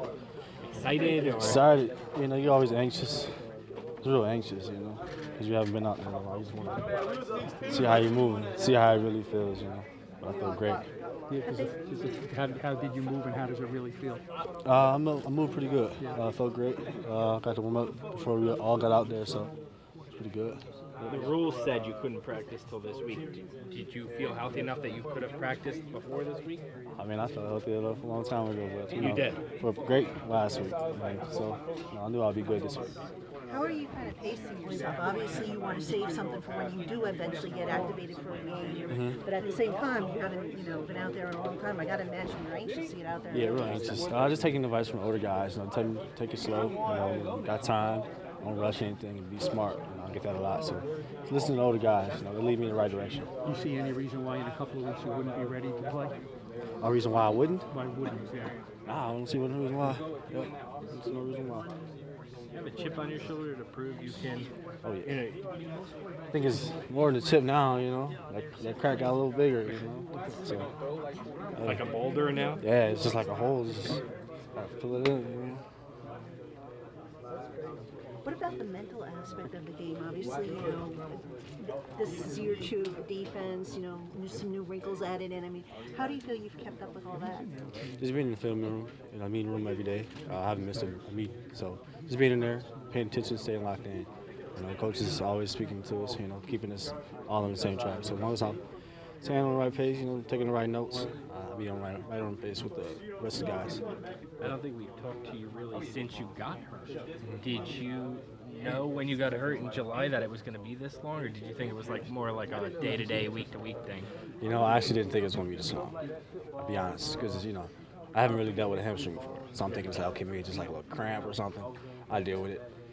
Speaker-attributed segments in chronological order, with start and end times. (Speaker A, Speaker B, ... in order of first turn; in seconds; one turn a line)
Speaker A: 0.6-1.7
Speaker B: 1.0-3.3
Speaker B: 4.0-6.9
Speaker B: 7.6-10.8
Speaker C: 11.3-14.2
Speaker B: 14.6-19.5
Speaker B: 20.1-21.3
Speaker A: 21.0-26.6
Speaker B: 26.9-32.9
Speaker A: 28.9-29.4
Speaker D: 33.5-44.1
Speaker B: 38.9-39.2
Speaker B: 43.3-53.3
Speaker C: 53.4-56.2
Speaker B: 56.8-57.7
Speaker C: 57.7-58.6
Speaker B: 58.9-61.7
Speaker A: 62.5-64.5
Speaker B: 64.8-65.2
Speaker A: 65.0-65.4
Speaker B: 66.3-70.7
Speaker B: 71.5-71.8
Speaker A: 71.6-72.6
Speaker B: 72.6-74.0
Speaker B: 74.5-75.6
Speaker D: 78.2-81.2
Speaker D: 82.0-87.5
Speaker B: 88.0-98.6
Speaker B: 99.2-103.8
Speaker A: 104.4-114.1
Speaker B: 114.4-116.0
Speaker B: 116.6-122.7